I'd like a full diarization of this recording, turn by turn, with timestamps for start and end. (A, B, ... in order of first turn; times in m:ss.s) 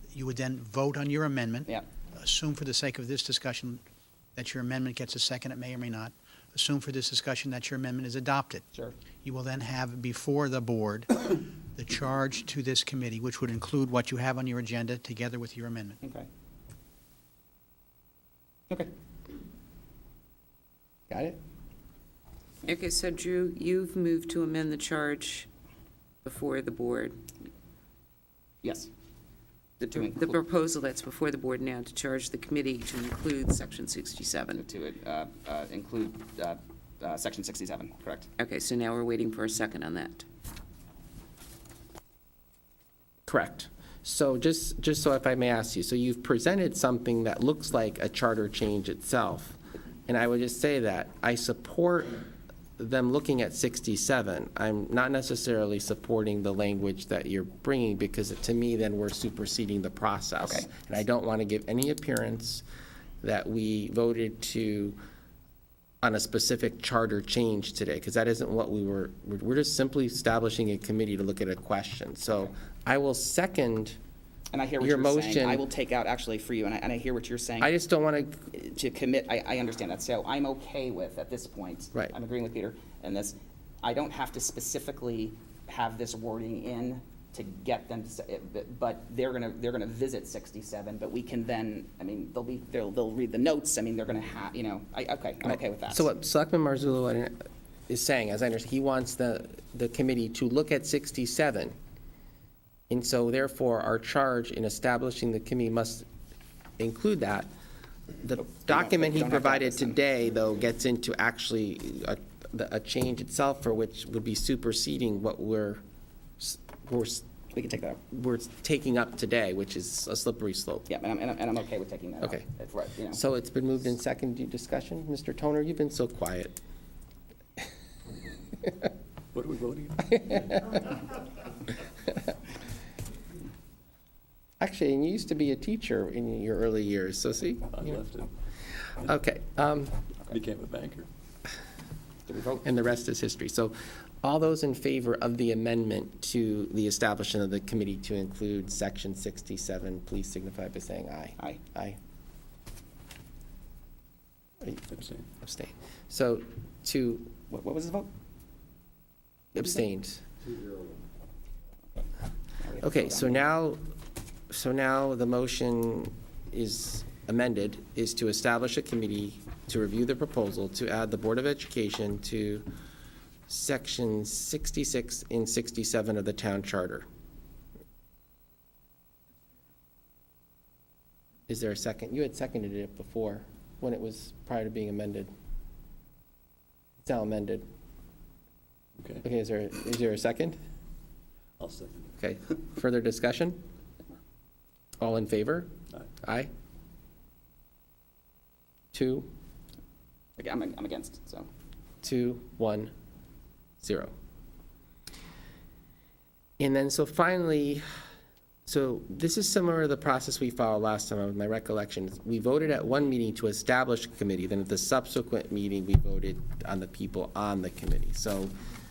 0:00.2-0:01.7 A
0:02.2-0:03.8 A
0:04.4-0:08.6 A
0:09.2-0:16.0 A
0:16.0-0:16.3 B
0:21.1-0:21.4 C
0:22.7-0:25.5 D
0:26.2-0:27.2 D
0:28.6-0:28.9 B
0:29.8-0:30.4 B
0:29.9-0:34.6 D
0:34.6-0:38.3 B
0:38.4-0:40.2 D
0:43.3-0:52.3 C
0:52.8-1:02.6 C
1:03.2-1:05.0 C
1:06.0-1:14.0 C
1:14.5-1:17.7 B
1:14.8-1:15.6 C
1:17.6-1:18.4 C
1:18.5-1:36.1 B
1:35.4-1:37.4 C
1:37.9-1:41.7 C
1:42.9-1:46.1 C
1:46.8-1:47.5 C
1:48.2-1:55.8 C
1:48.4-1:50.0 B
1:56.4-1:57.2 C
1:57.5-1:58.0 B
1:58.1-2:00.9 C
2:00.9-2:03.2 B
2:03.1-2:06.6 C
2:09.3-2:10.8 E
2:10.4-2:10.8 C
2:14.6-2:18.0 C
2:17.7-2:18.3 E
2:19.0-2:20.0 C
2:20.3-2:21.1 E
2:22.3-2:22.7 B
2:22.6-2:32.0 C
2:34.9-2:35.2 E
2:35.4-2:37.3 C
2:37.5-2:38.1 B
2:39.5-2:40.2 C
2:42.6-2:43.4 B
2:42.8-2:43.8 C
2:44.5-2:52.7 C
2:53.5-2:57.1 C
3:01.5-3:05.3 C
3:07.0-3:07.7 C
3:09.0-3:09.2 E
3:09.2-3:10.6 C
3:11.6-3:12.2 E
3:12.2-3:13.6 C
3:15.0-3:15.7 C
3:16.2-3:16.5 C
3:18.9-3:19.3 C
3:20.4-3:21.5 B
3:22.0-3:22.9 C
3:23.8-3:24.1 C
3:26.6-3:27.8 C
3:28.7-3:38.5 C